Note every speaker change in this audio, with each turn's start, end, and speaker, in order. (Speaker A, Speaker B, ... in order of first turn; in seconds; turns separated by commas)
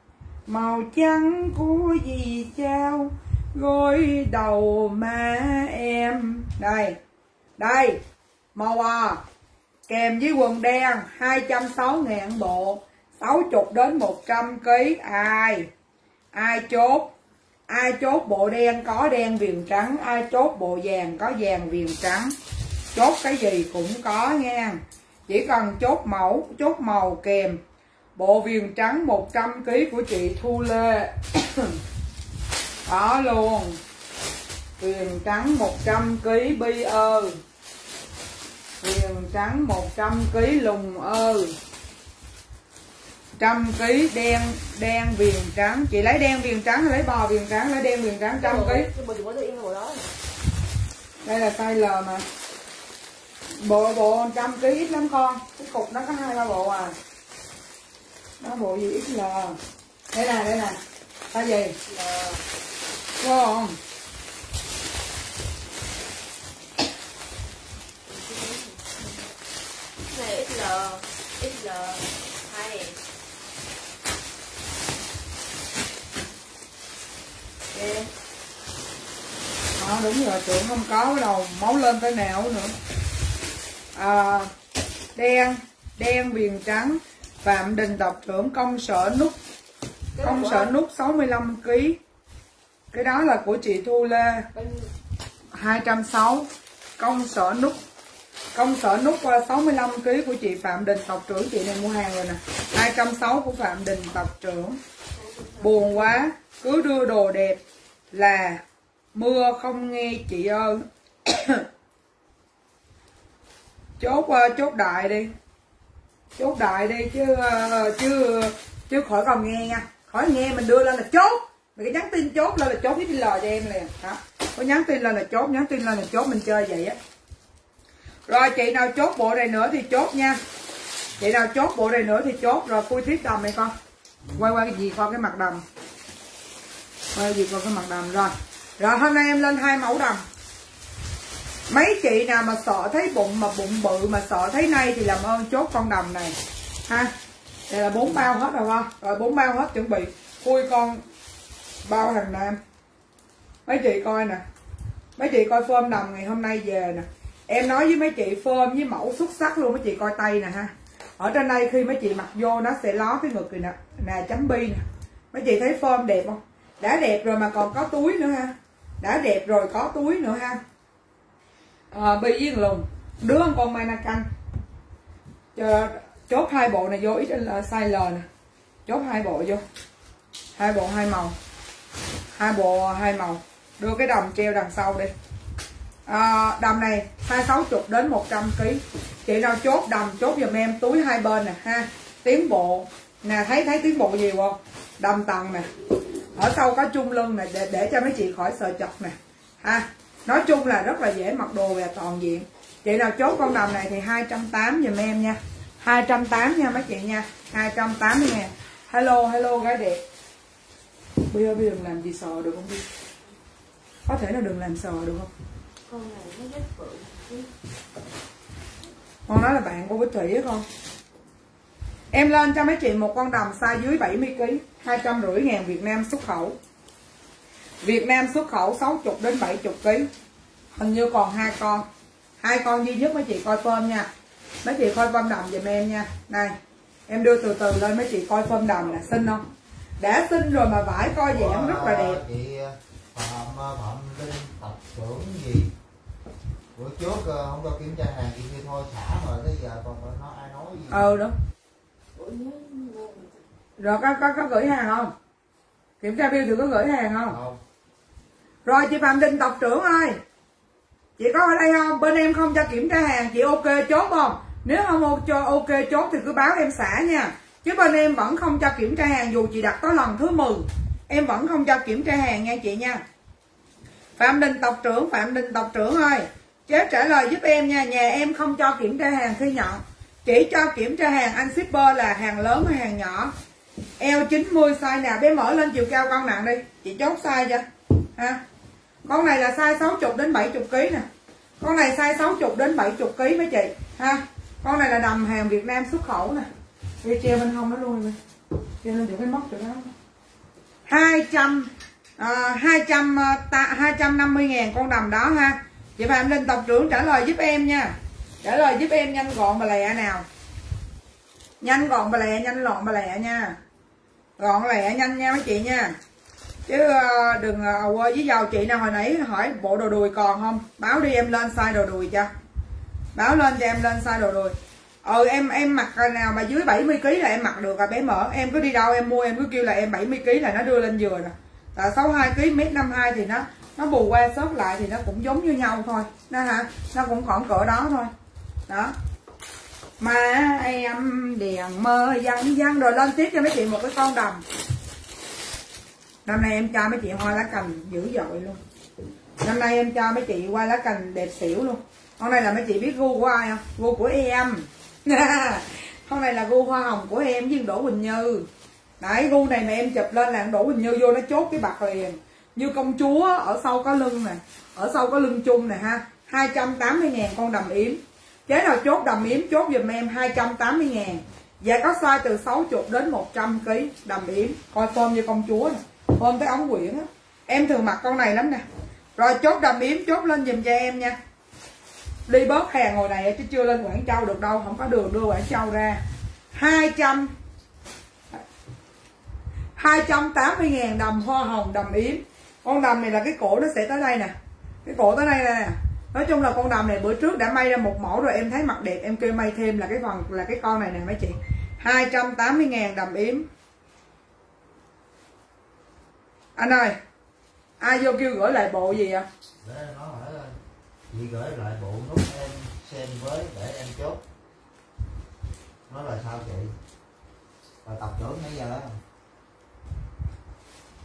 Speaker A: 0.5-7.0, Speaker A: 7.6-8.0, Speaker A: 8.5-9.2, Speaker A: 9.9-15.7, Speaker A: 16.3-17.1, Speaker A: 17.7-22.3, Speaker A: 22.9-27.6, Speaker A: 28.1-31.8, Speaker A: 32.9-33.8, Speaker A: 34.8-37.4, Speaker A: 38.8-41.5, Speaker A: 43.4-48.9, Speaker B: 48.4-50.1, Speaker A: 51.2-52.2, Speaker A: 53.6-56.9, Speaker A: 58.4-59.6, Speaker A: 60.1-60.8, Speaker A: 61.3-61.8, Speaker B: 61.9-62.4, Speaker A: 63.2-63.8, Speaker B: 68.1-69.2, Speaker B: 70.1-73.0, Speaker B: 77.7-78.1, Speaker A: 79.8-82.7, Speaker A: 84.0-84.5, Speaker A: 85.2-89.3, Speaker B: 90.2-90.7, Speaker A: 90.2-92.0, Speaker A: 92.9-94.5, Speaker B: 94.5-94.9, Speaker A: 95.5-96.5, Speaker A: 97.0-97.8, Speaker A: 98.5-104.8, Speaker B: 105.1-106.2, Speaker A: 105.6-107.6, Speaker A: 108.1-108.6, Speaker A: 109.1-111.7, Speaker A: 114.0-115.3, Speaker A: 116.4-127.0, Speaker A: 128.3-130.4, Speaker A: 131.2-133.7, Speaker A: 134.3-135.6, Speaker A: 137.1-140.2, Speaker A: 141.7-146.3, Speaker A: 146.9-147.1, Speaker A: 147.7-151.0, Speaker A: 151.8-152.6, Speaker A: 153.7-154.4, Speaker A: 155.2-164.8, Speaker A: 165.3-170.6, Speaker A: 171.9-174.3, Speaker A: 175.5-178.2, Speaker A: 178.8-179.6, Speaker A: 180.6-181.3, Speaker A: 182.3-185.1, Speaker A: 186.1-195.7, Speaker A: 196.3-210.0, Speaker A: 211.3-212.8, Speaker A: 214.1-215.3, Speaker B: 215.9-217.5, Speaker A: 219.3-220.7, Speaker A: 222.1-226.6, Speaker A: 227.8-230.1, Speaker A: 230.7-231.9, Speaker A: 232.4-234.1, Speaker A: 234.6-236.5, Speaker A: 237.1-239.4, Speaker A: 240.0-242.2, Speaker C: 241.3-245.7, Speaker C: 246.7-251.2, Speaker A: 250.9-251.3, Speaker B: 252.1-253.4, Speaker A: 253.8-255.1, Speaker A: 256.0-257.4, Speaker C: 257.2-257.6, Speaker A: 258.6-260.2, Speaker A: 261.2-273.0, Speaker A: 274.2-283.3, Speaker A: 284.0-288.4, Speaker A: 289.1-291.1, Speaker A: 291.6-296.5, Speaker A: 297.0-298.2, Speaker A: 298.8-299.9, Speaker A: 300.9-310.2, Speaker A: 311.6-313.6, Speaker A: 314.4-315.9, Speaker A: 316.7-322.3, Speaker A: 323.1-338.1, Speaker A: 338.7-338.9, Speaker A: 340.0-344.4, Speaker A: 346.2-348.6, Speaker A: 349.4-358.5, Speaker A: 359.0-378.6, Speaker A: 379.1-381.2, Speaker A: 382.3-386.0, Speaker A: 386.5-387.3, Speaker A: 389.8-394.3, Speaker A: 394.8-403.5, Speaker A: 406.6-407.0, Speaker A: 407.8-409.2, Speaker C: 409.6-410.6, Speaker C: 411.1-414.2, Speaker C: 415.9-416.7, Speaker C: 417.8-419.0